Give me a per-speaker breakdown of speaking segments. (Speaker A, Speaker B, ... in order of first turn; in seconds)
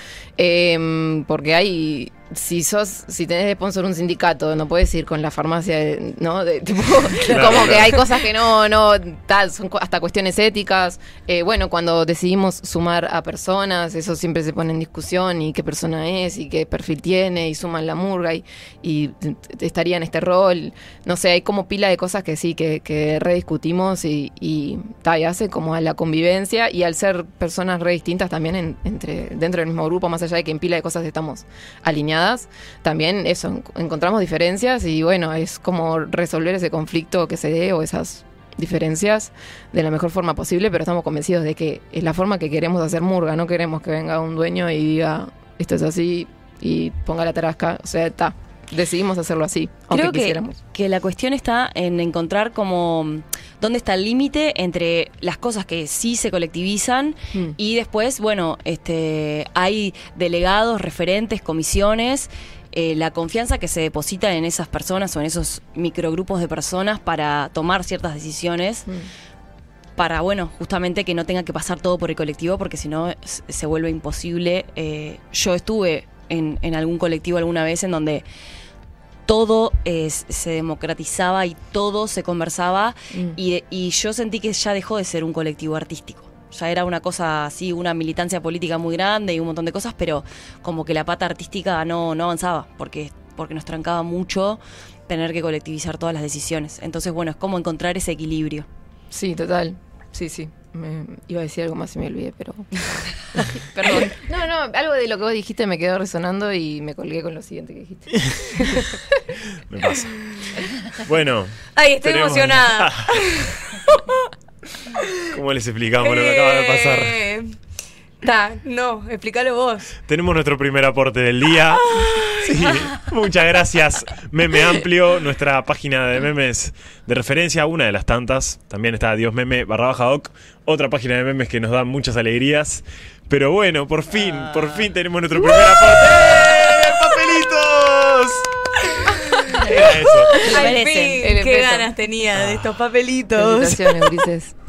Speaker A: 0.4-50.6, 83.1-83.4, 99.1-102.7, 103.3-108.8, 141.2-141.9, 143.3-144.5
Speaker B: 7.2-8.1, 108.5-108.9, 111.8-114.3, 116.0-117.5, 118.2-119.9, 121.9-122.4, 135.6-136.1, 138.9-144.2
Speaker C: 7.2-8.0, 108.1-108.4, 109.5-110.2, 110.9-113.5, 115.2-117.2, 120.1-140.4, 142.4-142.6
Speaker D: 49.9-68.9, 70.0-78.2, 79.3-98.7, 103.7-104.1, 134.2-134.9, 140.4-141.2